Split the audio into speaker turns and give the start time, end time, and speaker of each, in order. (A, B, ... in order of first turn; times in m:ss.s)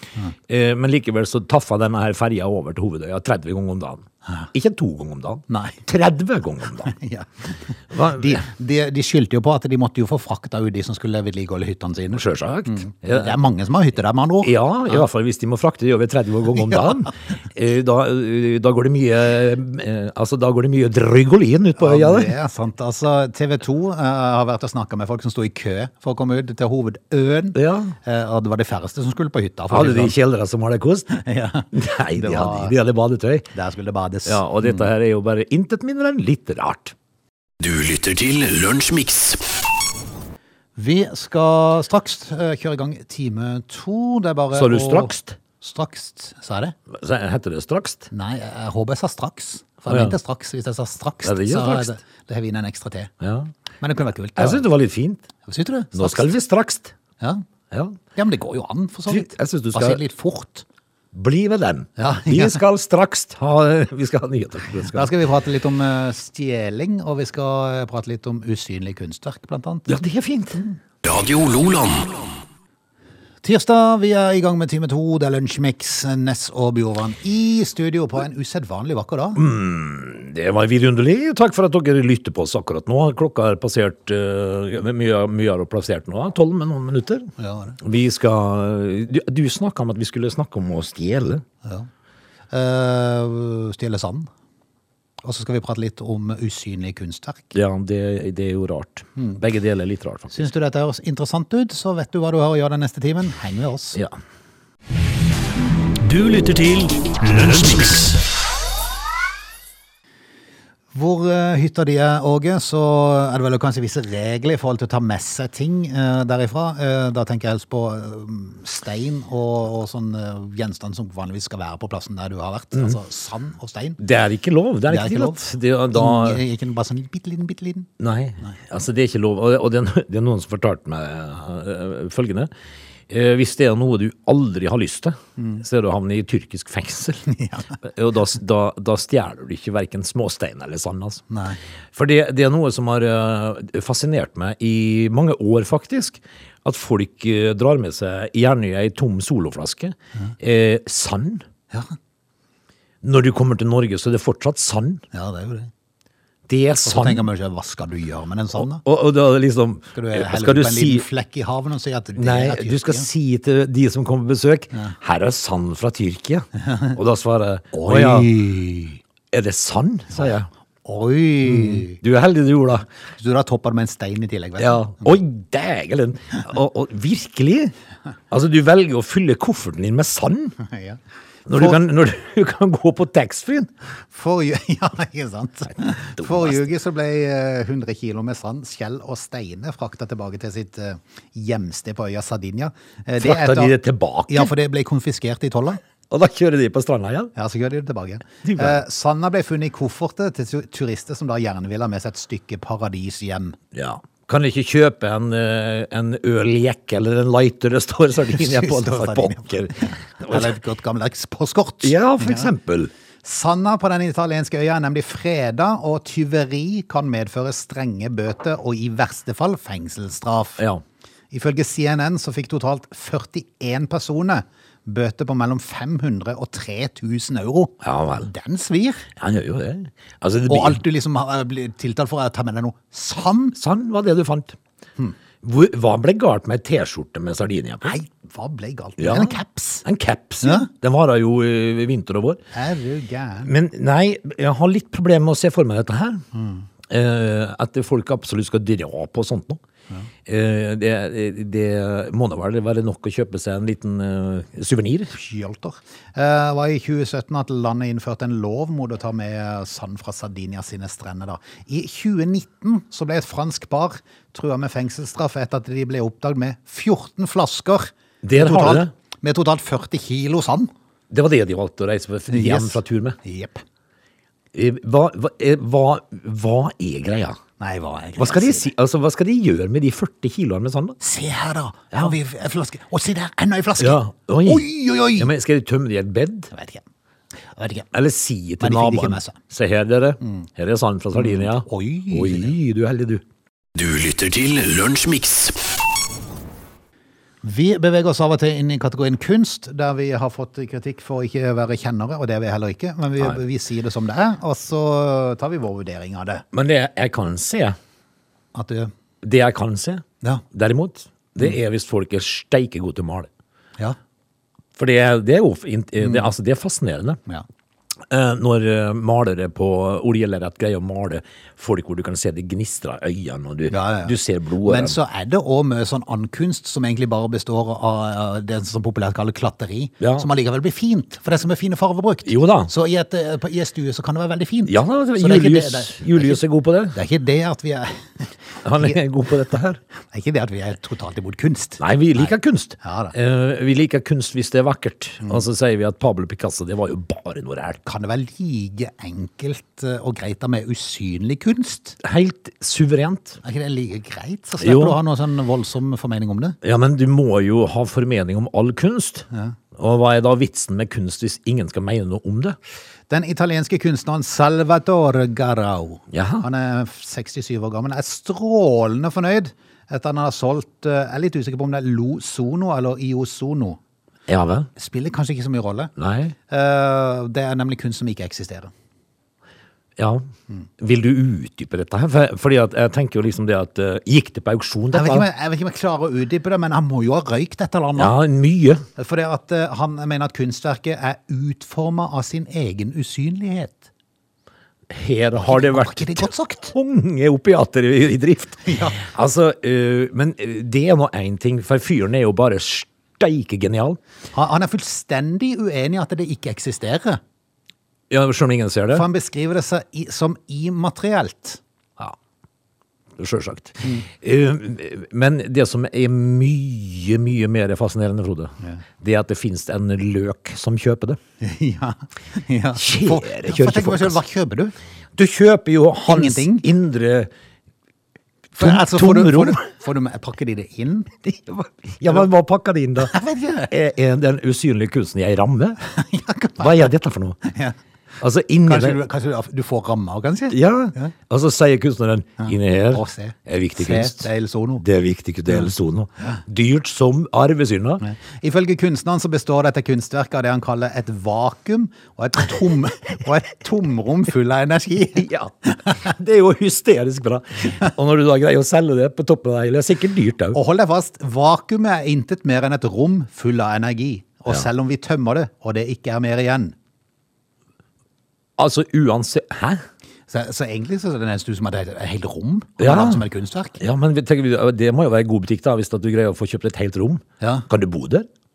0:00.5-0:06.9 A
0:05.5-0:05.8 B
0:06.8-0:15.0 B
0:07.9-0:08.4 A
0:12.1-0:13.4 A
0:14.4-0:22.3 A
0:21.8-0:30.2 B
0:27.5-0:27.9 A
0:29.7-0:31.2 A
0:31.1-0:32.7 B
0:31.7-0:33.5 A
0:33.5-0:34.9 B
0:34.2-0:36.9 A
0:37.6-0:39.5 C
0:40.8-0:46.7 B
0:44.5-0:45.4 A
0:46.9-0:48.1 A
0:48.1-0:53.1 B
0:49.9-0:50.1 A
0:51.2-0:52.0 A
0:53.2-0:53.5 A
0:53.8-0:54.6 B
0:54.4-0:55.3 A
0:55.4-0:56.3 B
0:55.9-0:56.9 A
0:57.7-0:58.0 A
0:58.1-1:00.6 B
0:59.1-1:00.0 A
1:01.1-1:05.1 A
1:02.0-1:02.6 B
1:04.8-1:09.9 B
1:09.9-1:10.6 A
1:11.0-1:12.3 C
1:13.4-1:19.4 B
1:19.4-1:31.4 A
1:27.4-1:27.8 B
1:31.6-1:31.9 B
1:32.5-1:34.3 B
1:35.2-1:37.6 B
1:37.5-1:40.4 A
1:40.3-1:44.0 B
1:46.0-1:48.2 C
1:50.9-2:04.0 B
2:04.0-2:06.4 A
2:04.9-2:07.9 B
2:08.0-2:12.5 A
2:13.1-2:17.3 A
2:15.4-2:15.6 B
2:17.3-2:17.7 B
2:17.8-2:21.2 A
2:21.3-2:21.6 B
2:21.9-2:31.4 A
2:33.0-2:35.0 A
2:35.1-2:35.7 B
2:36.5-2:37.3 A
2:36.8-2:38.8 B
2:38.5-2:41.0 A
2:39.9-2:43.1 B
2:42.2-2:48.3 A
2:46.7-2:46.9 B
2:47.7-2:49.0 B
2:49.3-2:50.5 A
2:50.8-2:52.0 B
2:51.4-2:52.8 A
2:53.2-2:55.2 B
2:54.6-2:57.7 A
2:58.3-3:00.6 A
3:00.6-3:01.0 B
3:01.4-3:03.7 A
3:01.5-3:01.8 B
3:04.1-3:13.8 B
3:05.8-3:06.6 A
3:13.2-3:14.5 A
3:14.3-3:15.8 B
3:16.1-3:17.3 A
3:17.3-3:23.6 B
3:18.4-3:18.8 A
3:23.7-3:30.5 A
3:28.3-3:32.5 B
3:31.8-3:32.9 A
3:33.2-3:40.6 B
3:41.3-3:49.1 B
3:47.8-3:48.3 A
3:49.2-3:50.8 A
3:50.5-3:53.6 B
3:53.6-3:54.6 A
3:55.4-3:58.0 A
3:57.8-3:59.8 B
3:59.0-4:02.4 A
4:00.4-4:00.7 B
4:02.5-4:03.5 B
4:03.4-4:06.2 A
4:06.3-4:06.6 B
4:06.9-4:09.6 A
4:10.2-4:15.1 A
4:15.1-4:30.7 B
4:28.2-4:28.9 A
4:31.1-4:33.2 A
4:32.3-4:33.6 B
4:34.5-4:37.4 A
4:37.6-4:38.7 B
4:38.2-4:41.0 A
4:41.0-4:45.3 B
4:43.8-4:46.5 A
4:46.5-4:46.8 B
4:47.5-4:47.9 B
4:47.9-4:53.2 A
4:48.6-4:49.4 B
4:51.1-4:52.5 B
4:53.7-4:55.6 C
4:57.4-5:06.4 B
5:06.5-5:07.8 A
5:08.5-5:08.9 B
5:09.2-5:13.3 A
5:14.8-5:17.2 A
5:18.1-5:25.0 A
5:23.7-5:39.0 B
5:30.0-5:30.3 A
5:32.2-5:32.7 A
5:34.6-5:37.0 A
5:38.6-5:39.8 A
5:40.1-5:43.1 B
5:41.8-5:47.8 A
5:47.8-5:52.0 B
5:52.0-5:53.4 A
5:53.4-5:56.6 B
5:54.6-5:55.0 A
5:56.6-6:02.6 A
5:59.3-5:59.6 B
6:03.1-6:13.8 B
6:06.1-6:06.4 A
6:14.3-6:14.7 A
6:14.8-6:15.9 B
6:16.0-6:16.3 A
6:16.5-6:18.7 B
6:20.0-6:20.2 A
6:20.8-6:25.3 A
6:24.9-6:28.1 B
6:28.0-6:28.8 A
6:29.0-6:33.9 B
6:34.9-6:44.0 A
6:35.3-6:36.7 B
6:38.6-6:39.0 B
6:44.3-6:47.2 B
6:48.1-6:49.0 A
6:48.9-6:51.6 B
6:53.2-7:01.2 A
7:01.4-7:04.7 B
7:02.8-7:04.2 A
7:05.2-7:07.3 A
7:06.0-7:06.6 B
7:08.5-7:11.1 B
7:08.6-7:09.6 A
7:11.2-7:13.1 A
7:13.0-7:13.7 B
7:13.7-7:15.8 A
7:15.8-7:16.9 B
7:16.6-7:17.4 A
7:17.4-7:17.8 B
7:18.2-7:19.0 A
7:18.6-7:21.1 B
7:20.5-7:24.3 A
7:22.4-7:24.8 B
7:24.8-7:28.0 A
7:25.5-7:25.7 B
7:28.0-7:35.9 B
7:35.2-7:40.6 A
7:40.5-7:46.7 B
7:48.6-7:49.8 A
7:50.3-7:53.8 B
7:52.8-7:53.2 A
7:53.8-7:58.3 A
7:57.4-7:57.6 B